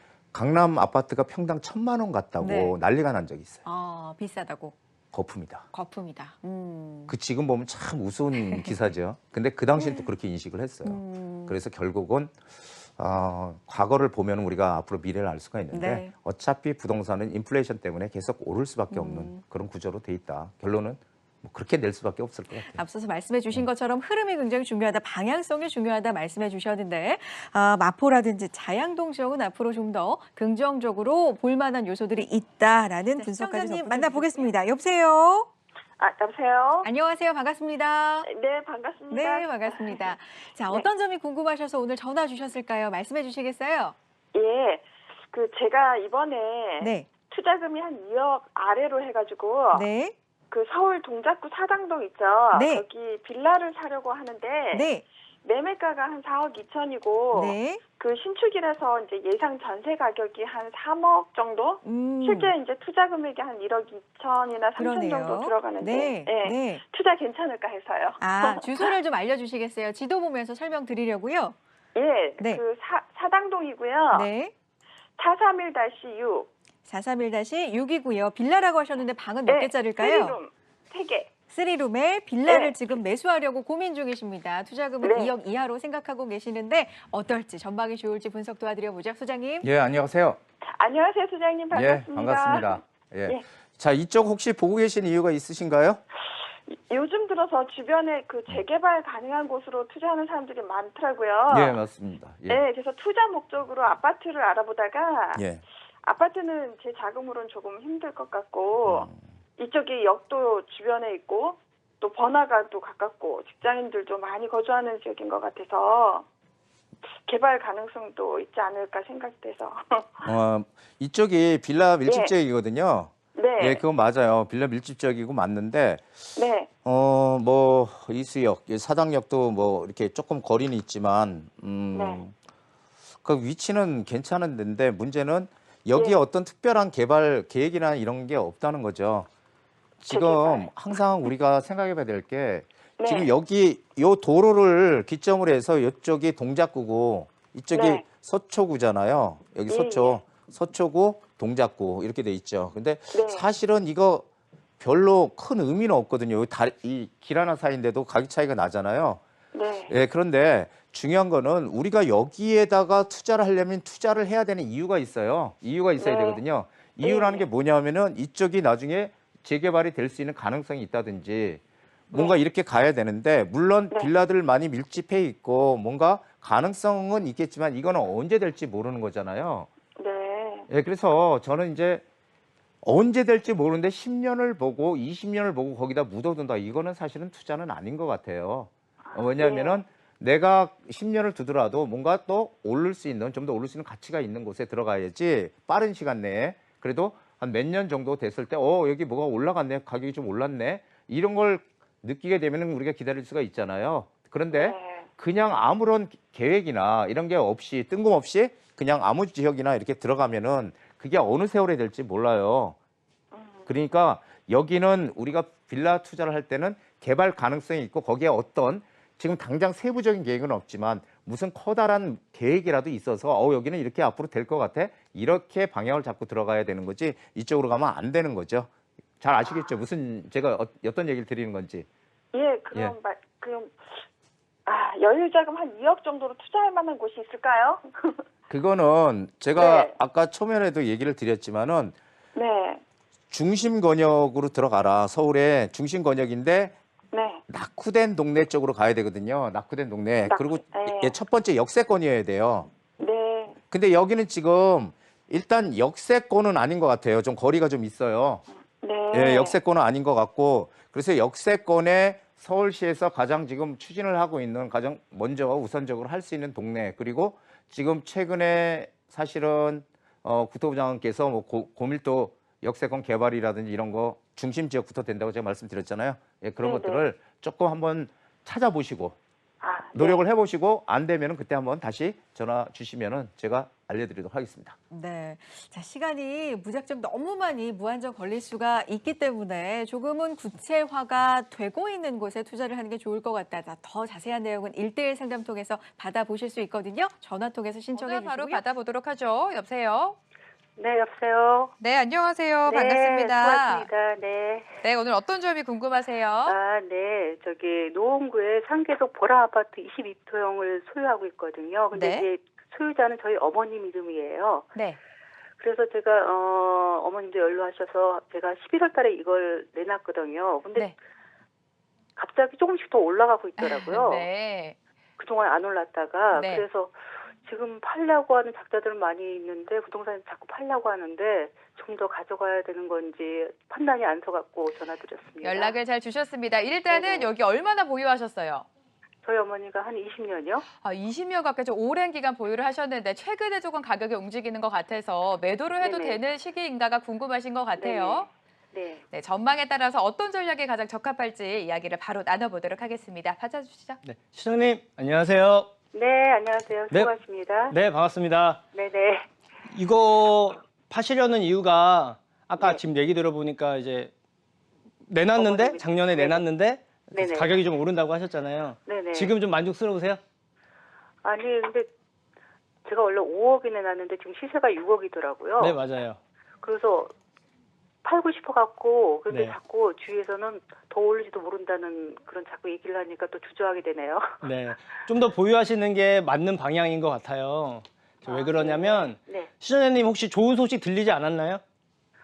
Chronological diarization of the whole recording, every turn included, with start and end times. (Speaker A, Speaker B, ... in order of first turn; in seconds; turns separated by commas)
Speaker A: 0.3-3.6, Speaker B: 2.4-2.8, Speaker B: 3.7-4.8, Speaker A: 5.1-5.6, Speaker B: 5.7-7.1, Speaker A: 7.1-12.3, Speaker B: 8.4-8.7, Speaker B: 9.8-10.1, Speaker B: 10.9-11.6, Speaker A: 13.0-22.8, Speaker B: 15.7-16.1, Speaker B: 18.9-19.4, Speaker B: 22.6-35.5, Speaker C: 33.3-34.0, Speaker C: 36.0-36.9, Speaker B: 36.8-38.3, Speaker C: 38.2-40.1, Speaker B: 39.1-44.0, Speaker C: 44.3-49.9, Speaker B: 46.8-47.1, Speaker B: 49.7-50.1, Speaker C: 50.5-54.9, Speaker B: 52.5-52.9, Speaker B: 54.7-55.0, Speaker C: 55.4-68.9, Speaker B: 57.3-57.8, Speaker B: 61.8-62.5, Speaker B: 64.8-66.8, Speaker B: 68.2-71.6, Speaker C: 72.0-74.3, Speaker B: 74.1-74.5, Speaker C: 75.2-76.5, Speaker B: 76.9-80.4, Speaker C: 79.5-81.3, Speaker B: 81.5-89.7, Speaker C: 82.5-82.8, Speaker C: 85.0-85.3, Speaker A: 89.6-90.4, Speaker C: 90.7-93.4, Speaker A: 91.7-96.0, Speaker C: 96.7-101.8, Speaker A: 101.5-102.6, Speaker C: 102.5-105.4, Speaker A: 105.4-105.6, Speaker C: 106.0-116.3, Speaker A: 108.9-109.2, Speaker C: 117.3-120.3, Speaker A: 120.3-126.1, Speaker C: 122.0-122.3, Speaker C: 123.3-123.8, Speaker C: 126.4-126.7, Speaker A: 126.8-132.3, Speaker C: 131.9-132.2, Speaker A: 133.2-139.3, Speaker C: 135.9-136.2, Speaker A: 140.0-154.3, Speaker C: 140.1-140.7, Speaker C: 143.0-143.3, Speaker C: 147.7-148.1, Speaker C: 149.7-150.2, Speaker C: 153.1-153.5, Speaker A: 154.8-159.2, Speaker C: 159.5-159.9, Speaker A: 159.9-179.7, Speaker C: 166.0-166.4, Speaker C: 167.0-167.4, Speaker C: 172.1-172.4, Speaker C: 180.0-180.7, Speaker A: 180.7-182.0, Speaker A: 182.8-212.8, Speaker C: 189.0-189.8, Speaker C: 204.5-205.1, Speaker C: 213.3-213.7, Speaker A: 213.7-231.9, Speaker C: 232.3-234.0, Speaker C: 234.7-238.2, Speaker A: 238.5-242.0, Speaker C: 239.6-239.9, Speaker C: 242.3-242.8, Speaker A: 243.3-246.8, Speaker C: 247.1-247.4, Speaker A: 247.5-252.7, Speaker C: 250.3-251.2, Speaker C: 253.0-253.6, Speaker A: 253.7-258.4, Speaker C: 258.5-259.6, Speaker A: 259.1-279.2, Speaker C: 276.6-277.1, Speaker C: 279.6-280.2, Speaker A: 279.9-284.8, Speaker B: 284.9-298.6, Speaker D: 297.9-300.2, Speaker E: 300.8-301.7, Speaker D: 301.8-303.9, Speaker E: 302.7-304.8, Speaker D: 304.8-306.6, Speaker E: 306.5-314.7, Speaker D: 311.9-312.3, Speaker E: 315.6-320.9, Speaker E: 322.2-324.3, Speaker D: 323.6-324.8, Speaker E: 325.2-335.8, Speaker D: 326.3-326.6, Speaker D: 335.4-338.7, Speaker E: 336.9-337.3, Speaker E: 339.2-340.6, Speaker D: 340.8-348.3, Speaker E: 345.8-346.2, Speaker E: 347.8-349.0, Speaker D: 349.1-354.0, Speaker F: 354.0-355.7, Speaker E: 355.9-357.8, Speaker F: 357.7-358.6, Speaker E: 358.7-359.3, Speaker F: 359.7-364.1, Speaker F: 365.1-370.2, Speaker E: 365.4-366.5, Speaker E: 367.1-367.6, Speaker E: 368.9-369.4, Speaker E: 371.2-371.9, Speaker E: 372.9-375.8, Speaker F: 375.6-376.2, Speaker E: 376.6-377.1, Speaker E: 378.0-384.5, Speaker F: 379.3-379.6, Speaker F: 384.4-391.6, Speaker E: 388.2-389.5